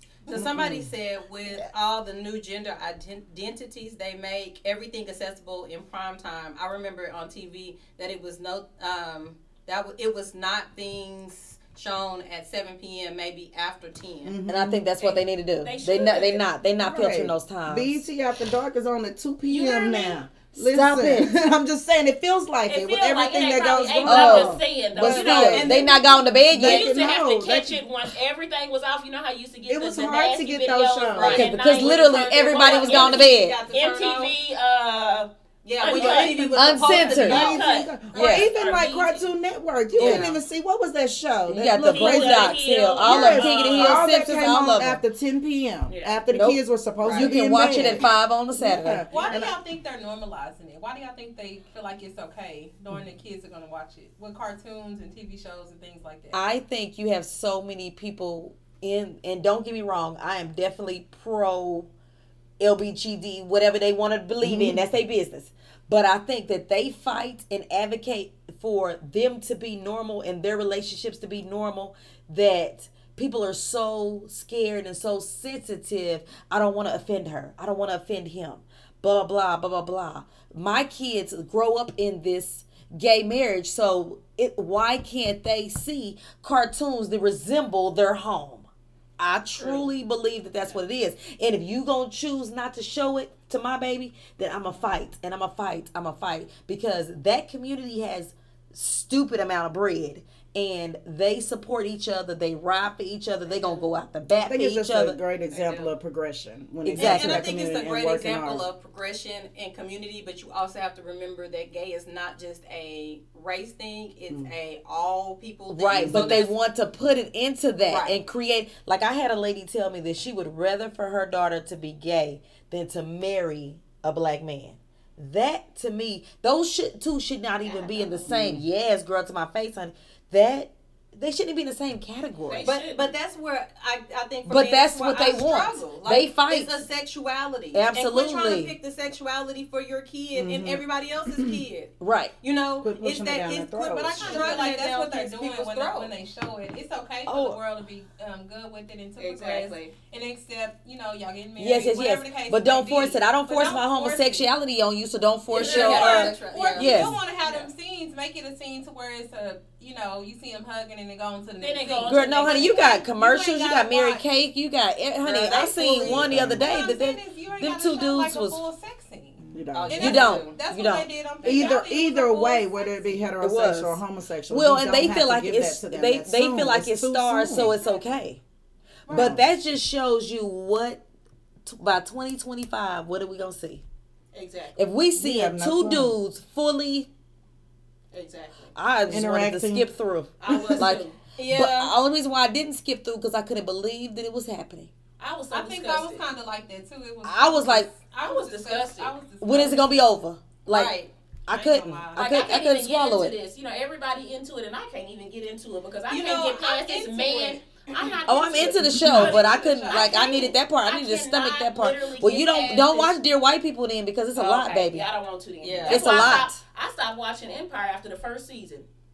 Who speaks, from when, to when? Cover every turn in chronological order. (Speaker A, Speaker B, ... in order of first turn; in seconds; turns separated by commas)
Speaker A: 0.3-14.3, Speaker B: 0.3-0.9, Speaker B: 14.2-14.8, Speaker C: 14.5-18.0, Speaker D: 15.0-16.5, Speaker B: 16.8-25.8, Speaker D: 19.5-20.2, Speaker C: 20.6-21.3, Speaker D: 22.7-26.0, Speaker C: 24.0-26.9, Speaker A: 25.6-26.1, Speaker B: 26.5-27.8, Speaker D: 26.5-39.3, Speaker B: 29.7-31.5, Speaker A: 31.1-34.4, Speaker C: 31.3-33.6, Speaker A: 35.6-37.6, Speaker B: 35.8-49.6, Speaker C: 36.5-37.5, Speaker C: 38.1-38.5, Speaker E: 38.1-38.5, Speaker D: 40.0-40.3, Speaker C: 40.0-40.3, Speaker C: 41.5-45.0, Speaker D: 41.6-44.2, Speaker D: 45.9-46.2, Speaker C: 46.3-49.0, Speaker A: 47.0-47.3, Speaker E: 49.1-56.4, Speaker C: 56.3-61.9, Speaker C: 62.6-88.7, Speaker B: 64.4-64.8, Speaker C: 89.2-105.2, Speaker D: 89.6-89.8, Speaker D: 103.5-103.8, Speaker B: 104.4-108.6, Speaker D: 105.5-105.9, Speaker C: 106.8-107.4, Speaker A: 107.0-116.5, Speaker C: 115.7-132.7, Speaker B: 115.9-116.4, Speaker A: 117.9-118.2, Speaker D: 127.6-128.3, Speaker B: 128.3-128.6, Speaker D: 132.5-133.1, Speaker A: 132.6-146.1, Speaker C: 134.4-136.8, Speaker C: 137.7-138.7, Speaker B: 140.3-140.8, Speaker C: 142.0-142.3, Speaker B: 142.8-144.6, Speaker E: 143.9-154.5, Speaker C: 147.2-147.6, Speaker D: 149.2-149.9, Speaker C: 151.6-157.2, Speaker A: 155.5-157.2, Speaker D: 155.5-156.3, Speaker E: 155.6-164.2, Speaker D: 157.4-157.7, Speaker D: 161.6-162.8, Speaker C: 162.0-168.6, Speaker A: 165.5-166.0, Speaker B: 165.6-166.7, Speaker E: 166.6-173.3, Speaker B: 169.4-170.1, Speaker A: 169.7-170.6, Speaker C: 170.0-171.1, Speaker B: 171.4-177.8, Speaker A: 171.5-171.7, Speaker C: 173.4-178.4, Speaker E: 177.8-178.2, Speaker B: 179.1-179.4, Speaker C: 179.1-181.0, Speaker C: 181.6-183.8, Speaker D: 184.3-184.8, Speaker C: 184.8-187.1, Speaker B: 185.2-186.1, Speaker D: 188.1-188.7, Speaker C: 188.7-194.9, Speaker B: 189.1-189.9, Speaker A: 190.4-190.8, Speaker D: 190.4-191.2, Speaker B: 190.5-190.9, Speaker A: 191.3-191.9, Speaker D: 195.2-196.3, Speaker E: 195.5-200.1, Speaker C: 197.2-197.9, Speaker D: 198.2-199.2, Speaker C: 199.4-200.9, Speaker A: 200.7-201.1, Speaker C: 201.5-203.3, Speaker E: 201.5-202.5, Speaker D: 202.2-213.1, Speaker A: 206.1-208.2, Speaker C: 208.3-215.1, Speaker E: 208.6-210.4, Speaker D: 214.3-218.9, Speaker A: 215.6-216.0, Speaker C: 215.9-216.6